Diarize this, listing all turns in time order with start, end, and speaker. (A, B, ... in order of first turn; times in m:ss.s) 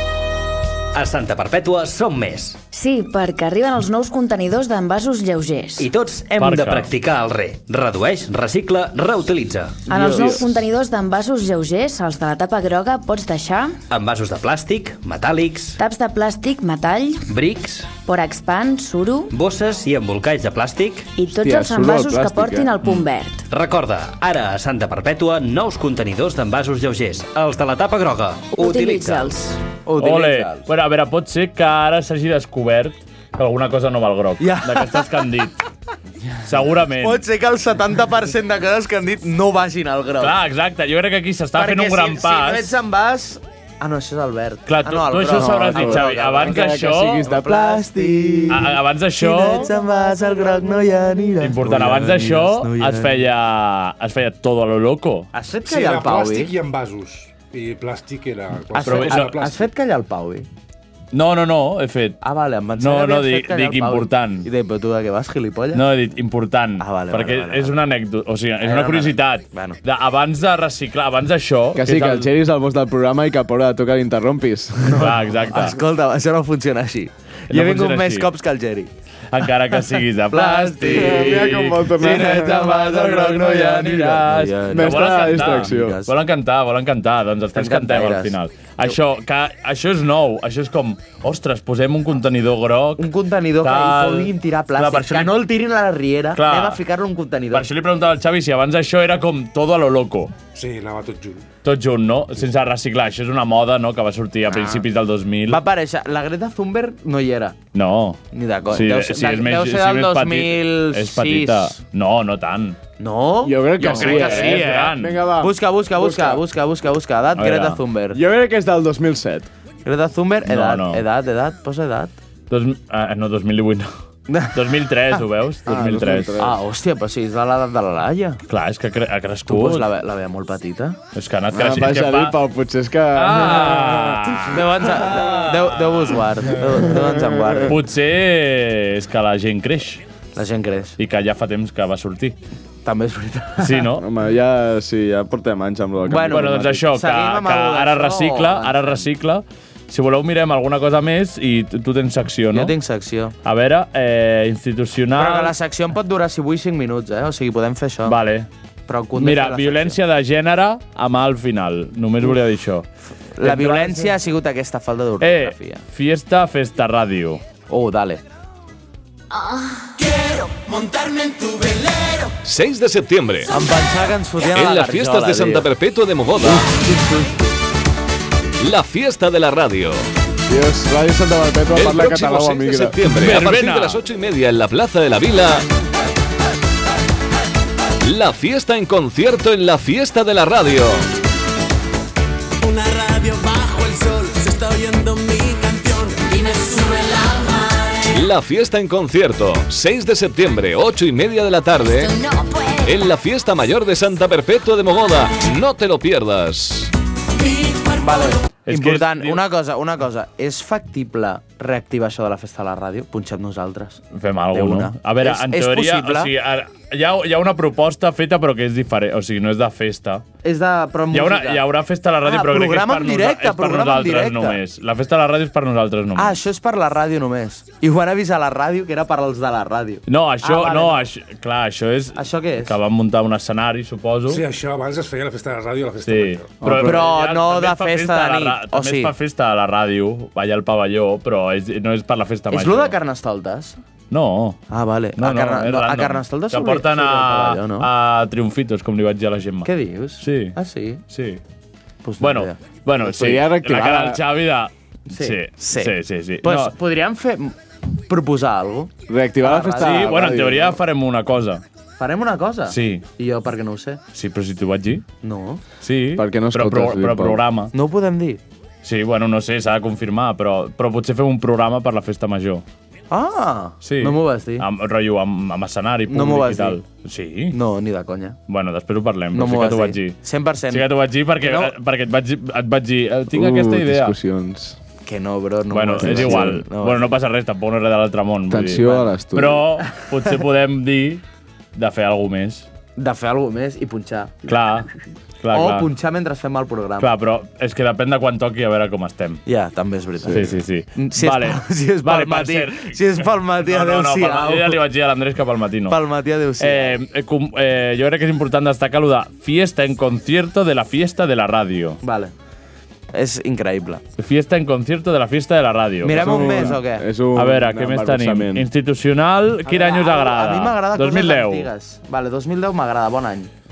0:00.9-0:02.6 A
0:02.7-0:05.9 B
0:05.8-0:09.8 A
0:06.4-0:06.9 C
0:09.9-0:13.8 B
0:09.9-0:10.6 D
0:13.9-0:15.8 A
0:15.8-0:17.2 B
0:17.3-0:18.0 A
0:18.0-0:19.3 B
0:19.3-0:21.1 A
0:21.2-0:23.4 B
0:21.3-0:22.7 D
0:23.5-0:29.4 A
0:28.5-0:29.5 B
0:29.8-0:30.6 E
0:30.0-0:35.6 C
0:34.4-0:35.2 E
0:36.4-0:37.2 C
0:36.8-0:40.3 E
0:40.2-0:42.7 C
0:41.5-0:53.2 E
0:44.6-0:47.2 C
0:45.3-0:48.6 D
0:48.5-0:49.7 C
0:51.4-0:55.3 C
0:55.3-0:56.5 E
0:55.6-0:59.7 F
0:58.7-1:00.5 E
0:58.8-0:59.4 C
1:01.1-1:02.2 C
1:02.2-1:05.8 E
1:02.8-1:04.5 C
1:05.7-1:12.3 C
1:06.8-1:07.8 E
1:08.6-1:09.8 E
1:11.8-1:15.1 D
1:14.9-1:15.8 C
1:14.9-1:18.9 E
1:17.5-1:18.3 C
1:19.3-1:33.1 C
1:20.3-1:26.1 E
1:20.9-1:22.7 D
1:24.7-1:26.0 D
1:27.5-1:28.4 E
1:33.0-1:37.7 E
1:33.6-1:35.3 C
1:36.3-1:36.8 C
1:37.5-1:40.4 C
1:40.5-1:41.4 F
1:41.6-1:45.6 C
1:44.5-1:44.8 E
1:45.5-1:47.6 E
1:47.7-1:52.8 C
1:48.3-1:51.8 E
1:53.0-1:58.2 E
1:53.4-1:56.4 D
1:53.8-1:55.2 C
1:57.4-1:57.8 C
1:58.1-1:59.5 D
1:59.8-2:02.1 E
2:00.4-2:01.0 C
2:02.5-2:03.9 C
2:04.3-2:05.2 E
2:04.5-2:06.4 C
2:05.6-2:06.6 D
2:06.4-2:08.4 E
2:08.5-2:09.8 C
2:09.5-2:11.0 E
2:11.1-2:12.4 C
2:11.5-2:14.5 D
2:13.1-2:16.2 C
2:14.5-2:17.8 E
2:17.6-2:20.0 C
2:20.4-2:21.0 E
2:21.0-2:22.4 C
2:22.8-2:23.9 E
2:23.6-2:24.0 C
2:24.0-2:26.8 D
2:26.0-2:29.0 E
2:26.3-2:32.7 C
2:32.5-2:33.4 E
2:33.4-2:35.5 C
2:35.2-2:38.2 E
2:38.0-2:38.5 C
2:38.9-2:40.0 E
2:39.2-2:42.9 C
2:43.4-2:45.8 E
2:43.4-2:44.1 C
2:45.2-2:47.4 C
2:47.7-2:48.2 E
2:50.0-2:52.4 G
2:52.4-2:53.5 H
2:53.5-2:55.7 E
2:54.4-2:56.8 H
2:56.4-2:57.3 E
2:58.6-3:00.1 H
3:00.5-3:03.0 D
3:01.7-3:05.6 H
3:03.2-3:04.0 C
3:08.0-3:11.1 H
3:12.6-3:18.1 G
3:18.1-3:22.2 H
3:22.8-3:26.9 H
3:27.4-3:28.4 G
3:28.0-3:34.0 E
3:28.7-3:29.4 C
3:34.1-3:40.2 C
3:34.5-3:36.3 E
3:40.4-3:41.6 E
3:41.1-3:46.4 C
3:42.2-3:44.6 E
3:46.2-3:51.1 E
3:50.1-3:54.4 C
3:52.2-3:52.8 E
3:54.3-3:56.6 F
3:56.0-4:02.9 C
3:56.6-3:56.9 D
3:56.8-3:59.1 E
4:02.5-4:03.8 E
4:04.1-4:04.6 C
4:04.7-4:07.9 E
4:05.2-4:10.6 C
4:09.6-4:11.0 E
4:11.1-4:11.4 C
4:12.0-4:12.6 E
4:12.2-4:16.7 C
4:13.0-4:14.2 D
4:15.1-4:20.2 E
4:19.1-4:20.8 D
4:19.8-4:21.6 C
4:22.0-4:24.0 E
4:22.7-4:23.0 C
4:24.1-4:25.0 C
4:25.2-4:25.6 E
4:25.8-4:27.7 C
4:26.2-4:27.4 D
4:27.7-4:28.4 E
4:28.8-4:32.6 C
4:33.1-4:34.6 E
4:33.8-4:37.6 C
4:36.1-4:36.8 E
4:37.5-4:38.4 E
4:38.5-4:40.2 C
4:39.3-4:40.9 E
4:40.7-4:44.1 C
4:41.4-4:41.7 E
4:43.3-4:44.8 D
4:45.0-4:47.1 E
4:45.7-4:51.2 C
4:46.0-4:46.6 D
4:48.5-4:49.6 D
4:51.8-4:52.7 C
4:53.0-4:54.5 E
4:54.4-4:54.9 C
4:55.4-4:55.9 C
4:55.5-4:57.1 E
4:57.0-4:59.4 C
4:59.4-5:04.8 E
5:00.2-5:06.0 C
5:05.9-5:07.0 E
5:06.6-5:12.0 C
5:12.0-5:12.3 E
5:13.1-5:14.0 E
5:14.2-5:16.8 C
5:16.0-5:17.0 E
5:16.2-5:18.7 D
5:17.3-5:21.7 C
5:19.6-5:23.5 E